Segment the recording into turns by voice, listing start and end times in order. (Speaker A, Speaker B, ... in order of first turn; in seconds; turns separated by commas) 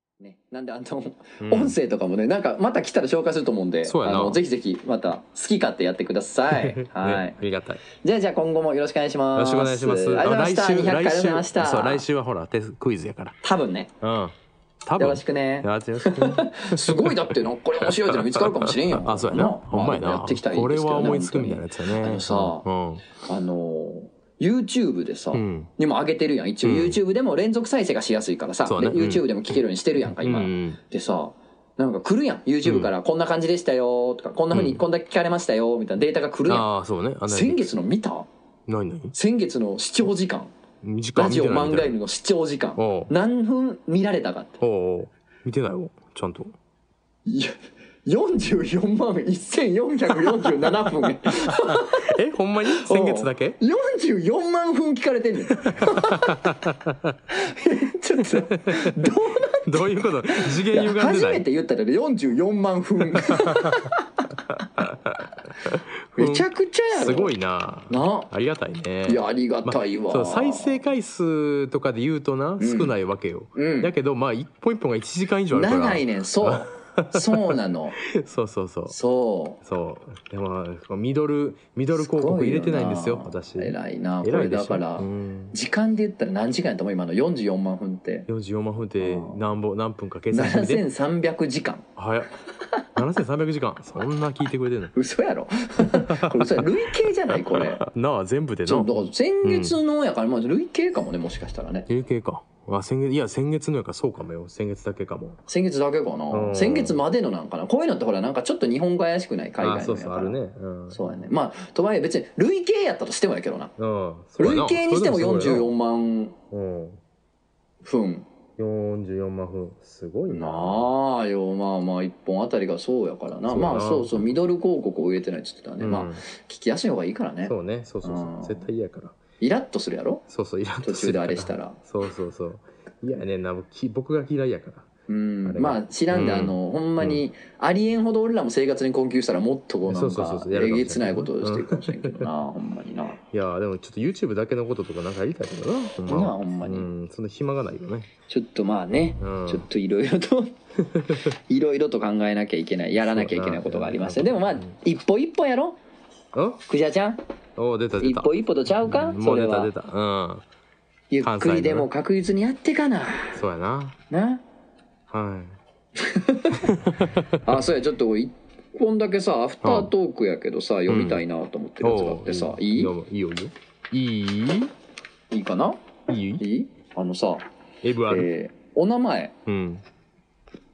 Speaker A: 0.2-7.3, Speaker B: 1.4-1.8, Speaker B: 3.9-4.4, Speaker B: 6.5-7.8, Speaker A: 8.0-12.0, Speaker B: 9.3-13.3, Speaker A: 13.4-13.9, Speaker B: 14.0-23.0, Speaker A: 15.0-22.6, Speaker A: 23.2-36.7, Speaker B: 25.3-25.7, Speaker B: 26.6-27.0, Speaker B: 28.6-29.5, Speaker B: 30.1-30.8, Speaker B: 32.6-32.9, Speaker B: 34.5-34.8, Speaker B: 36.5-37.7, Speaker A: 37.2-38.3, Speaker B: 38.7-39.1, Speaker A: 39.1-40.5, Speaker B: 40.8-42.0, Speaker A: 41.1-44.6, Speaker B: 42.8-43.1, Speaker B: 44.6-46.5, Speaker A: 47.2-47.5, Speaker A: 48.0-52.1, Speaker B: 51.5-53.6, Speaker A: 52.7-56.4, Speaker B: 55.5-57.1, Speaker A: 57.3-64.2, Speaker B: 58.7-59.1, Speaker B: 59.6-61.4, Speaker B: 63.1-63.7, Speaker B: 64.8-79.0, Speaker A: 66.2-67.3, Speaker A: 67.9-68.3, Speaker A: 69.0-70.8, Speaker A: 72.6-72.9, Speaker A: 73.5-73.9, Speaker A: 75.5-78.0, Speaker A: 78.9-79.6, Speaker B: 79.6-85.5, Speaker A: 81.9-88.3, Speaker B: 88.3-90.8, Speaker A: 89.0-89.4, Speaker A: 90.3-91.8, Speaker B: 92.0-92.3, Speaker B: 93.0-94.9, Speaker A: 94.9-97.8, Speaker B: 95.8-96.7, Speaker B: 97.3-99.8, Speaker A: 98.7-101.9, Speaker B: 101.9-105.4, Speaker A: 105.5-110.4, Speaker B: 106.3-107.0, Speaker B: 109.6-111.0, Speaker A: 110.9-113.7, Speaker B: 113.8-115.7, Speaker A: 114.4-116.3, Speaker B: 116.5-117.0, Speaker A: 117.8-118.2, Speaker B: 118.6-120.9, Speaker A: 120.3-128.6, Speaker B: 123.5-124.2, Speaker B: 125.8-126.2, Speaker B: 127.4-129.2, Speaker A: 129.4-130.2, Speaker B: 130.3-134.9, Speaker A: 130.8-131.8, Speaker A: 135.1-143.2, Speaker B: 135.4-137.2, Speaker B: 139.9-142.3, Speaker B: 143.3-148.1, Speaker A: 146.0-146.9, Speaker A: 148.3-150.5, Speaker B: 149.2-149.7, Speaker B: 150.9-151.2, Speaker A: 151.2-155.8, Speaker B: 152.9-154.7, Speaker B: 156.3-156.6, Speaker A: 156.7-157.2, Speaker B: 157.6-160.4, Speaker A: 158.0-159.7, Speaker A: 161.1-163.4, Speaker B: 161.2-161.9, Speaker B: 163.3-163.9, Speaker A: 164.1-164.4, Speaker B: 165.1-165.5, Speaker A: 166.0-166.8, Speaker B: 166.6-167.5, Speaker A: 167.4-172.9, Speaker B: 169.6-169.9, Speaker B: 170.9-171.2, Speaker B: 171.8-174.7, Speaker A: 175.3-175.8, Speaker B: 176.1-176.4, Speaker A: 176.4-177.4, Speaker B: 177.8-178.3, Speaker A: 178.1-179.3, Speaker B: 179.5-179.8